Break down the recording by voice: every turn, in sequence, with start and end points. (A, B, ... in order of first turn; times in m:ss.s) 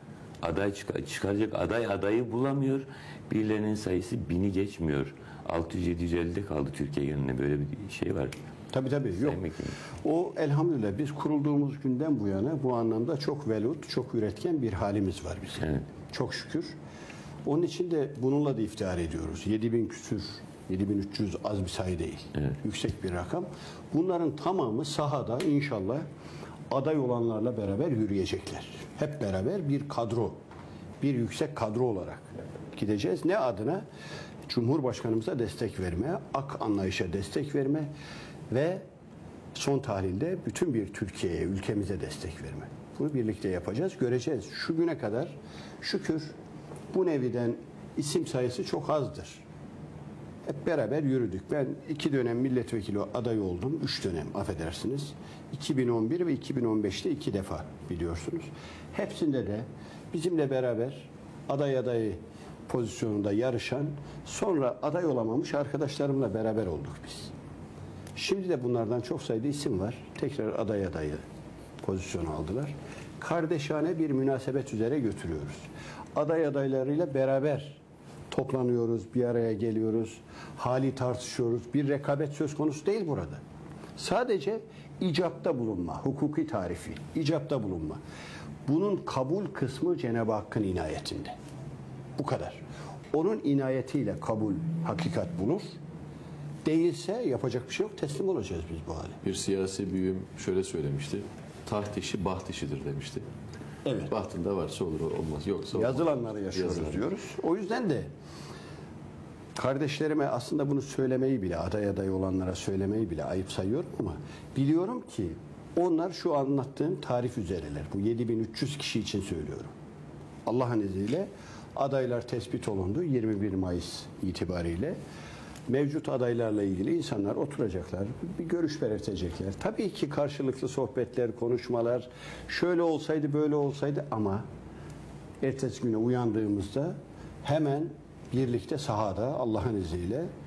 0:00.4-0:08.3 A
0:08.7-0:09.4 B
0:09.2-0:09.8 A
0:10.0-0:16.8 B
0:17.4-0:26.0 B
0:26.7-0:30.4 B
0:31.0-0:33.8 B
0:34.5-0:37.9 B
0:38.5-0:38.8 B
0:39.5-0:46.3 B
0:46.9-0:49.4 B
0:50.4-1:07.3 B
1:08.1-1:11.2 B
1:11.8-1:17.8 B
1:18.3-1:23.4 B
1:24.0-1:28.0 B
1:28.6-1:31.4 B
1:32.2-1:35.8 B
1:36.6-1:39.2 B
1:39.2-1:43.2 C
1:43.8-1:44.1 B
1:44.1-1:47.0 C
1:45.7-1:48.1 B
1:49.6-1:59.7 B
2:00.4-2:05.0 B
2:05.7-2:14.4 B
2:15.4-2:20.3 B